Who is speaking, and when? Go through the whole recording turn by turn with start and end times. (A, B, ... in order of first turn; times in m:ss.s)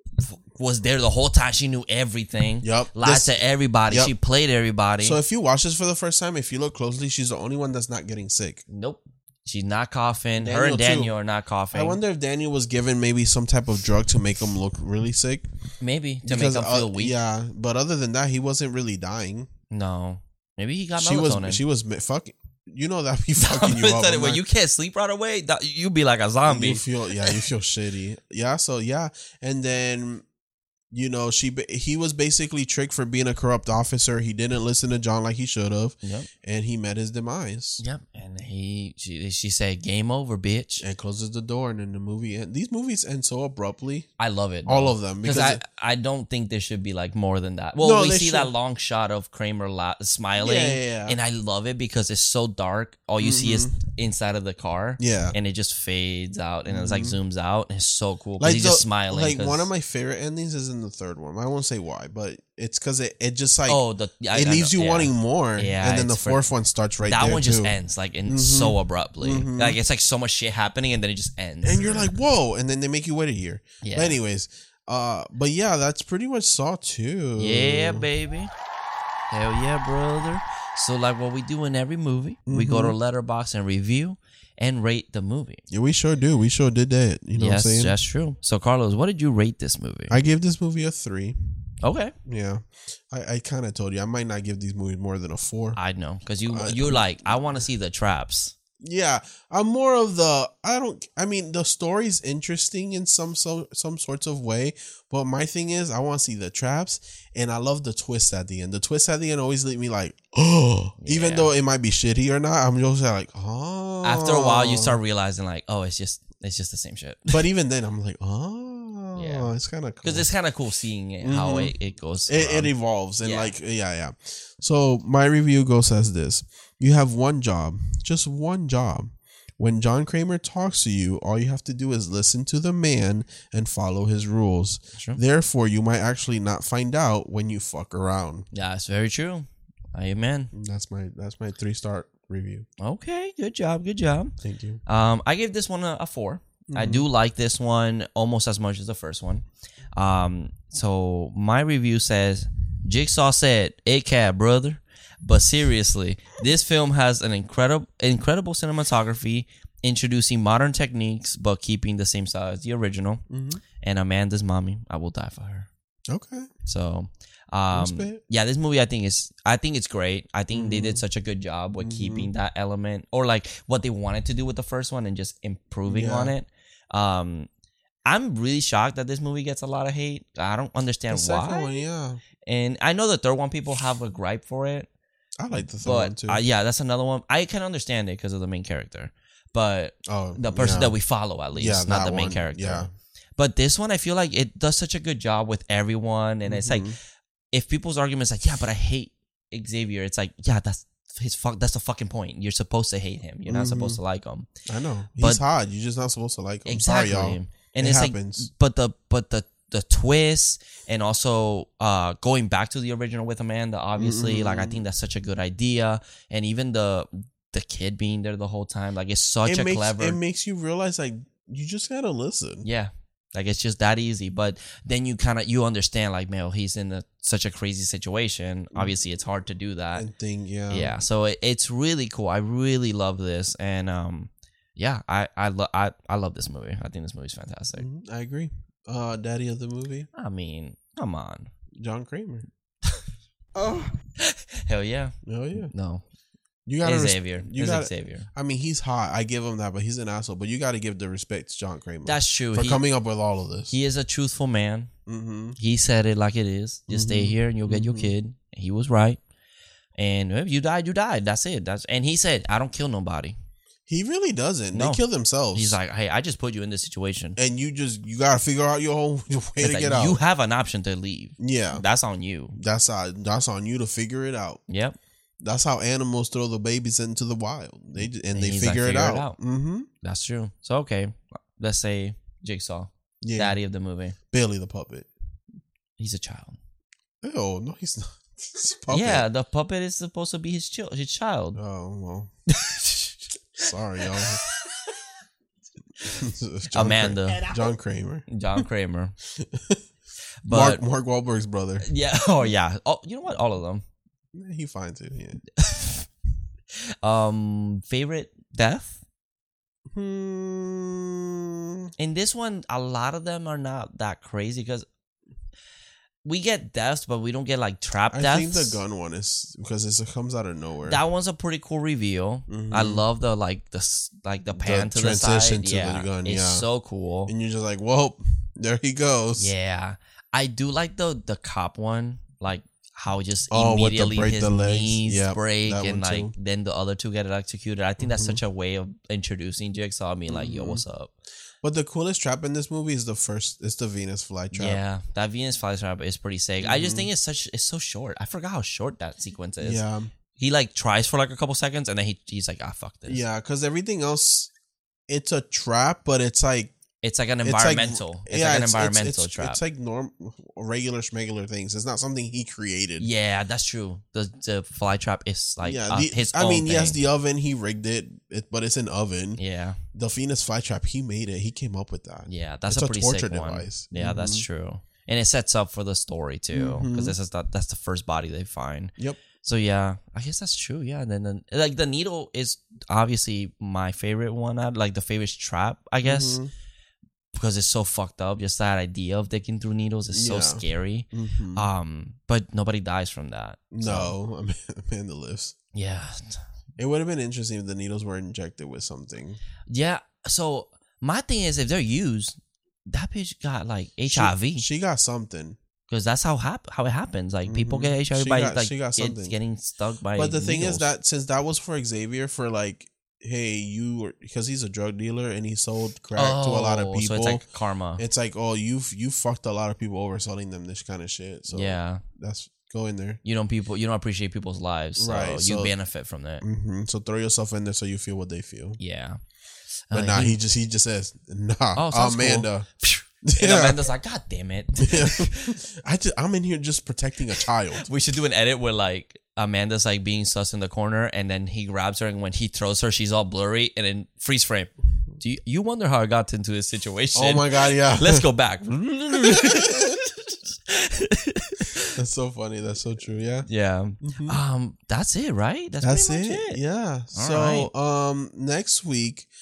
0:00.2-0:05.2 A
0:02.6-0:03.3 B
0:05.0-0:08.6 B
0:08.7-0:12.0 A
0:10.4-0:11.1 B
0:11.7-0:15.4 B
0:15.8-0:17.1 A
0:16.2-0:19.5 B
0:19.7-0:21.6 A
0:21.0-0:24.4 B
0:23.4-0:27.4 A
0:26.4-0:30.2 B
0:30.9-0:37.8 B
0:36.0-0:36.3 A
0:37.8-0:40.8 A
0:40.8-0:44.1 B
0:44.2-0:59.7 A
0:44.6-0:45.6 B
0:47.8-0:48.5 B
0:50.4-0:51.2 B
0:53.2-0:53.7 B
0:55.0-0:55.4 B
0:56.7-0:57.2 B
0:58.4-1:07.7 B
1:03.7-1:06.5 A
1:07.0-1:12.1 A
1:08.3-1:09.8 B
1:11.6-1:18.1 B
1:13.8-1:14.2 A
1:17.4-1:18.5 A
1:19.3-1:25.6 A
1:22.5-1:22.9 B
1:25.7-1:28.0 B
1:27.4-1:30.2 A
1:30.1-1:31.4 B
1:31.8-1:32.1 A
1:32.2-1:35.8 B
1:35.8-1:38.5 A
1:36.4-1:37.6 B
1:38.8-1:55.0 B
1:51.0-1:51.5 A
1:54.0-1:57.3 A
1:57.3-2:00.3 B
1:59.1-1:59.5 A
2:00.0-2:03.5 A
2:01.2-2:01.7 B
2:02.3-2:18.4 B
2:18.5-2:20.5 A
2:20.5-2:22.6 B
2:22.8-2:24.3 A
2:24.4-2:24.8 B
2:24.8-2:43.2 A
2:26.7-2:27.1 B
2:43.3-2:43.6 B
2:43.8-2:45.7 A
2:46.1-2:46.5 B
2:46.6-2:57.5 A
2:47.7-2:48.2 B
2:50.5-2:51.0 B
2:51.8-2:52.3 B
2:55.9-2:56.3 B
2:58.0-3:01.8 A
3:01.1-3:02.2 B
3:02.4-3:04.9 A
3:05.4-3:06.4 B
3:05.8-3:16.9 A
3:10.0-3:10.9 B
3:11.6-3:12.9 B
3:16.4-3:17.0 B
3:17.5-3:24.5 A
3:23.5-3:24.0 B
3:24.6-3:28.5 B
3:26.6-3:40.2 A
3:34.0-3:34.8 B
3:39.4-3:42.6 B
3:42.6-3:50.0 A
3:48.7-3:49.0 B
3:49.9-3:51.0 B
3:50.7-3:57.8 A
3:57.8-4:00.1 B
4:00.1-4:01.5 A
4:01.8-4:02.5 B
4:03.6-4:03.9 B
4:04.2-4:06.0 A
4:05.2-4:05.7 B
4:06.6-4:13.7 B
4:06.8-4:08.3 A
4:12.0-4:12.8 A
4:13.7-4:14.9 A
4:15.1-4:15.6 B
4:15.6-4:19.2 A
4:16.9-4:18.1 B
4:20.0-4:23.4 A
4:23.9-4:25.8 B
4:24.7-4:25.0 A
4:25.5-4:27.4 A
4:27.4-4:30.2 B
4:29.6-4:32.6 A
4:31.4-4:31.8 B
4:32.5-4:34.6 B
4:34.7-4:35.0 A
4:35.4-4:39.9 B
4:38.0-4:39.4 A
4:40.0-4:44.2 A
4:43.2-4:43.6 B
4:44.3-4:45.1 B
4:46.0-4:46.6 A
4:47.2-4:49.2 B
4:48.9-4:51.6 A
4:51.6-4:52.3 B
4:52.5-4:53.2 A
4:53.6-4:54.4 B
4:54.1-4:54.9 A
4:56.0-4:58.6 B
4:56.7-4:57.6 A
4:58.3-4:59.1 A
4:59.3-4:59.8 B
5:00.4-5:00.8 A
5:00.5-5:01.8 B
5:01.8-5:03.8 A
5:04.3-5:05.4 B
5:05.6-5:06.1 A
5:07.0-5:09.0 A
5:09.9-5:11.9 B
5:12.0-5:14.8 A
5:16.2-5:18.8 A
5:18.1-5:21.0 B
5:20.8-5:27.3 A
5:22.5-5:23.0 B
5:24.5-5:26.6 B
5:27.2-5:29.5 B
5:29.4-5:41.1 A
5:33.5-5:36.3 B
5:38.0-5:38.4 B
5:40.3-5:40.8 B
5:41.6-5:44.8 B
5:44.5-5:49.8 A
5:46.6-5:47.1 B
5:49.6-5:50.1 B
5:50.4-5:53.2 A
5:53.1-5:54.5 B
5:55.1-5:56.7 B
5:57.0-5:59.6 A
5:57.4-6:03.1 B
6:03.0-6:07.0 A
6:05.6-6:09.4 B
6:09.4-6:09.8 A
6:09.9-6:14.4 B
6:12.3-6:26.4 A
6:16.5-6:17.2 B
6:26.0-6:26.5 B
6:27.3-6:34.1 A
6:30.1-6:31.7 B
6:33.7-6:35.5 B
6:35.7-6:36.4 A
6:36.8-6:39.4 B
6:39.7-6:44.6 A
6:44.1-6:45.6 B
6:45.9-6:50.9 A
6:47.4-6:49.3 B
6:50.1-6:57.4 B
6:56.1-6:58.0 A
6:58.0-7:03.2 B
7:01.5-7:02.0 A
7:03.2-7:06.4 A
7:05.0-7:05.7 B
7:06.4-7:08.8 B
7:08.8-7:09.2 A
7:09.9-7:10.4 A
7:09.9-7:12.7 B
7:11.7-7:15.6 A
7:13.2-7:13.8 B
7:14.8-7:17.8 B
7:17.8-7:31.9 A
7:27.1-7:28.2 B
7:29.1-7:30.0 B
7:31.9-7:33.5 B
7:33.5-7:36.6 A
7:34.0-7:34.4 B
7:35.8-7:39.3 B
7:37.1-7:37.7 A